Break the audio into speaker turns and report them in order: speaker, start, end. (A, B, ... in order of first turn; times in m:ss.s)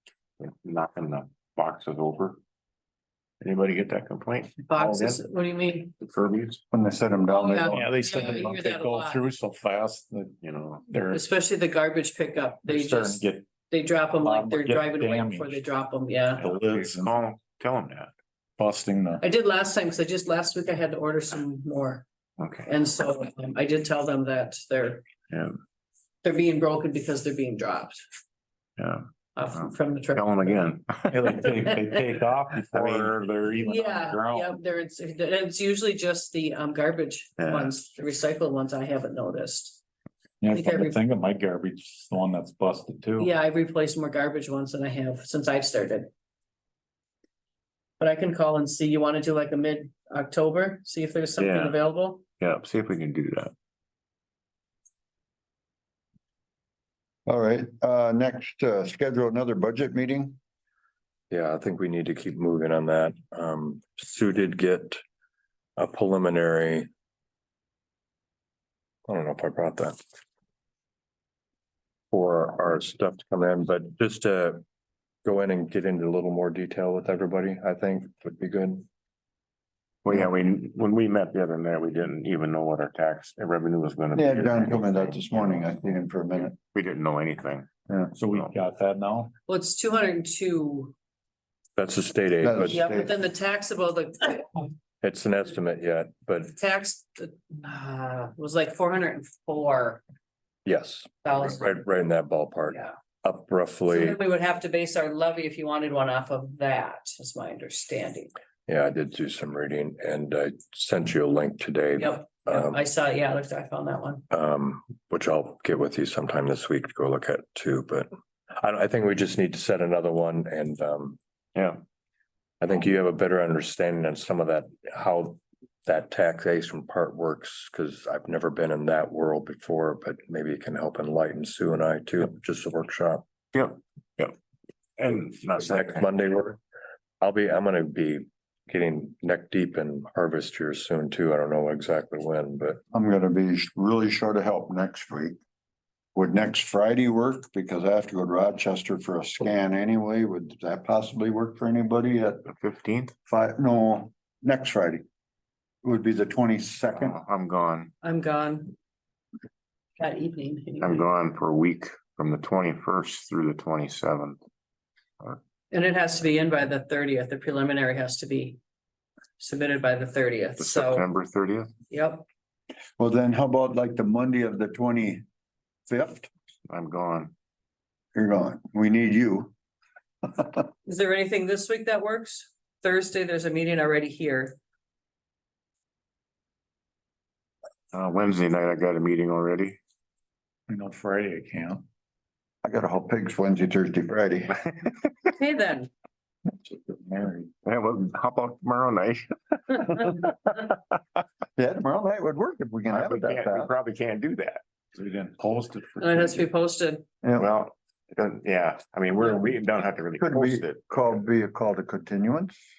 0:00.4-0:02.4 A
0:03.4-0:05.2 A
0:04.7-0:05.9 B
0:06.0-0:06.6 A
0:06.7-0:07.9 C
0:07.3-0:09.2 B
0:07.7-0:11.3 D
0:10.4-0:10.8 A
0:11.1-0:16.4 B
0:12.6-0:13.5 D
0:14.2-0:15.6 D
0:16.3-0:17.1 D
0:16.4-0:18.1 A
0:18.6-0:19.2 D
0:19.2-0:22.0 B
0:22.4-0:22.7 A
0:22.6-0:25.1 B
0:26.2-0:28.0 B
0:28.8-0:31.3 A
0:29.4-0:30.5 B
0:31.1-0:33.2 D
0:32.7-0:34.2 A
0:33.6-0:39.8 B
0:34.0-0:34.5 D
0:37.4-0:37.7 A
0:40.4-0:43.3 D
0:40.5-0:41.0 B
0:43.2-0:46.1 B
0:48.0-0:52.2 B
0:51.4-0:51.8 A
0:52.4-0:53.5 A
0:57.2-1:00.4 C
1:01.3-1:05.0 E
1:05.8-1:06.9 E
1:09.1-1:10.0 E
1:12.1-1:14.6 E
1:15.2-1:18.8 E
1:20.0-1:25.7 A
1:24.1-1:26.6 C
1:26.7-1:27.7 A
1:28.1-1:29.3 D
1:29.5-1:30.9 B
1:31.8-1:32.8 E
1:32.4-1:33.2 C
1:32.7-1:34.7 B
1:35.0-1:36.6 E
1:36.6-1:40.0 B
1:40.6-1:44.2 E
1:41.2-1:41.8 B
1:43.9-1:48.3 B
1:48.7-1:52.8 E
1:52.0-1:54.2 B
1:54.3-2:01.2 E
2:01.5-2:01.8 A
2:02.6-2:13.2 E
2:13.5-2:14.3 A
2:15.0-2:16.1 A
2:15.6-2:16.6 E
2:17.2-2:22.8 E
2:22.9-2:25.4 C
2:26.1-2:32.4 C
2:32.4-2:33.1 A
2:33.3-2:35.0 C
2:35.8-2:37.1 C
2:36.9-2:37.9 A
2:38.0-2:38.7 B
2:40.0-2:41.0 B
2:40.8-2:44.4 A
2:45.7-2:48.6 B
2:49.4-2:51.1 B
2:50.6-2:51.7 A
2:51.9-2:52.2 B
2:53.0-2:55.2 C
2:55.9-2:56.3 C
2:56.7-2:57.3 A
2:58.1-2:59.5 C
3:00.2-3:00.6 C
3:00.8-3:04.6 B
3:07.9-3:09.8 A
3:10.7-3:11.8 D
3:12.6-3:14.5 C
3:15.3-3:15.9 B
3:16.6-3:17.5 D
3:17.6-3:20.6 A
3:21.6-3:23.7 C
3:22.9-3:24.6 A
3:24.9-3:26.4 D
3:26.0-3:27.0 B
3:27.2-3:27.5 C
3:27.4-3:31.0 A
3:30.2-3:32.6 C